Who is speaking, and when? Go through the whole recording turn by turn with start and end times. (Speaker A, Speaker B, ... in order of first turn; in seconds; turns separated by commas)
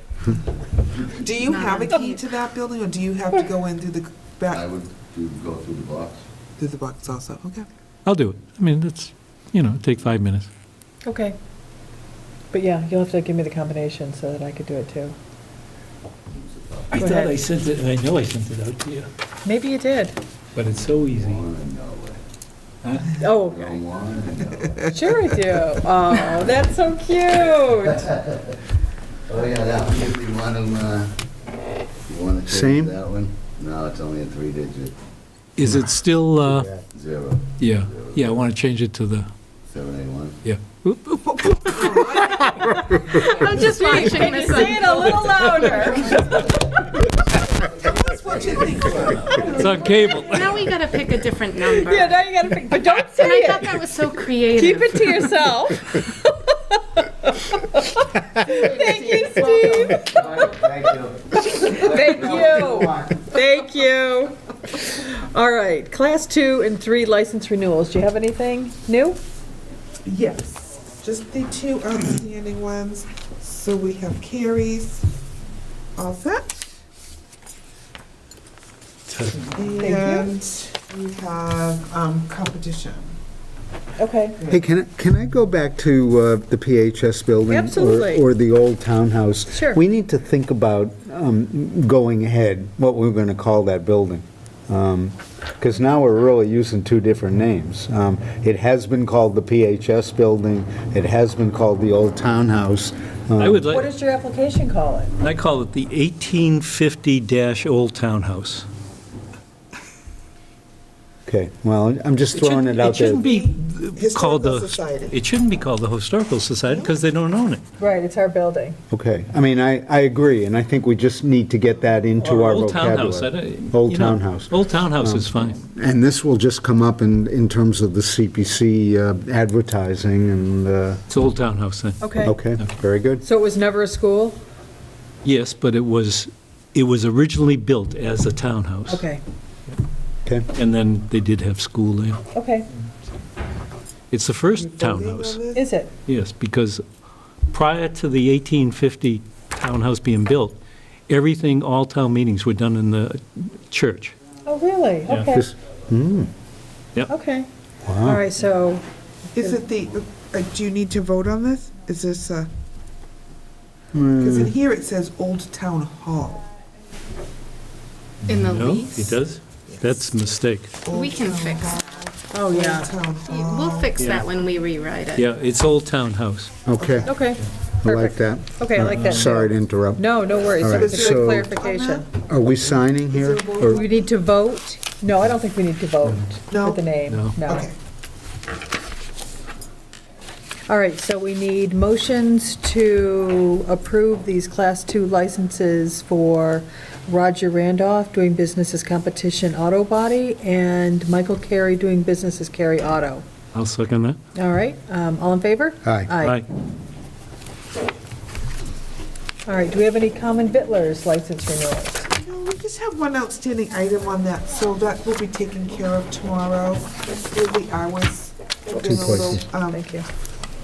Speaker A: 1.1-4.6, Speaker B: 1.4-2.2, Speaker C: 4.5-6.2, Speaker A: 6.6-7.7, Speaker D: 8.1-10.5, Speaker E: 11.0-11.3, Speaker E: 12.5-15.2, Speaker C: 16.3-16.9, Speaker D: 16.9-19.1, Speaker E: 16.9-17.4, Speaker E: 19.4-20.1, Speaker D: 20.5-21.4, Speaker C: 20.8-22.2, Speaker D: 22.8-23.2, Speaker E: 23.2-23.8, Speaker C: 23.3-24.9, Speaker E: 24.9-28.2, Speaker C: 28.1-28.5, Speaker C: 29.3-31.1, Speaker C: 32.1-35.0, Speaker F: 32.5-33.0, Speaker D: 35.6-36.7, Speaker C: 36.9-38.4, Speaker D: 37.6-39.3, Speaker C: 39.7-40.4, Speaker D: 40.4-42.0, Speaker A: 41.4-42.8, Speaker E: 42.6-46.6, Speaker F: 42.6-43.2, Speaker B: 43.1-45.8, Speaker A: 47.7-50.3, Speaker D: 49.5-50.6, Speaker B: 50.1-52.2, Speaker E: 51.6-53.8, Speaker B: 52.8-55.2, Speaker E: 54.5-60.8, Speaker F: 58.4-63.4, Speaker A: 58.8-59.7, Speaker E: 61.5-69.2, Speaker A: 70.0-75.0, Speaker A: 75.9-76.7, Speaker D: 79.1-79.4, Speaker A: 79.4-83.1, Speaker E: 79.8-80.3, Speaker E: 84.0-84.4, Speaker F: 84.5-103.6, Speaker E: 87.5-88.2, Speaker E: 89.5-89.8, Speaker D: 103.4-103.8, Speaker E: 103.7-105.1, Speaker D: 105.2-108.7, Speaker F: 111.2-113.2, Speaker D: 112.3-117.6, Speaker A: 113.0-115.2, Speaker A: 116.6-116.9, Speaker E: 117.8-118.8, Speaker F: 118.9-131.0, Speaker D: 122.2-125.6, Speaker D: 131.1-132.1, Speaker E: 132.0-132.3, Speaker F: 132.2-133.2, Speaker E: 133.2-134.4, Speaker D: 135.2-139.0, Speaker E: 138.9-139.2, Speaker D: 140.5-142.2, Speaker E: 142.3-142.7, Speaker D: 144.1-145.4, Speaker A: 144.5-145.7, Speaker E: 145.5-145.9, Speaker D: 146.1-146.8, Speaker D: 147.5-150.6, Speaker D: 151.1-154.1, Speaker E: 154.4-155.5, Speaker F: 155.3-156.3, Speaker E: 157.1-157.5, Speaker F: 157.8-158.2, Speaker E: 158.0-158.8, Speaker A: 159.3-162.5, Speaker F: 163.9-164.5, Speaker A: 164.2-166.4, Speaker D: 168.2-170.7, Speaker B: 168.3-169.2, Speaker A: 169.7-170.1, Speaker A: 170.8-173.9, Speaker B: 170.9-172.1, Speaker E: 172.3-172.9, Speaker B: 173.2-175.3, Speaker D: 174.0-174.2, Speaker D: 175.1-176.6, Speaker F: 176.6-177.2, Speaker A: 176.8-177.1, Speaker E: 177.1-182.1, Speaker F: 177.8-181.5, Speaker A: 180.6-182.1, Speaker F: 182.2-183.8, Speaker A: 183.1-184.0, Speaker E: 183.7-187.7, Speaker A: 186.5-186.8, Speaker D: 187.1-187.4, Speaker A: 187.4-187.8, Speaker E: 190.7-203.2, Speaker D: 203.5-204.2, Speaker E: 204.3-206.4, Speaker F: 205.8-206.1, Speaker D: 206.2-206.4, Speaker E: 209.4-212.1, Speaker A: 212.1-219.9, Speaker F: 218.8-219.4, Speaker E: 219.0-220.1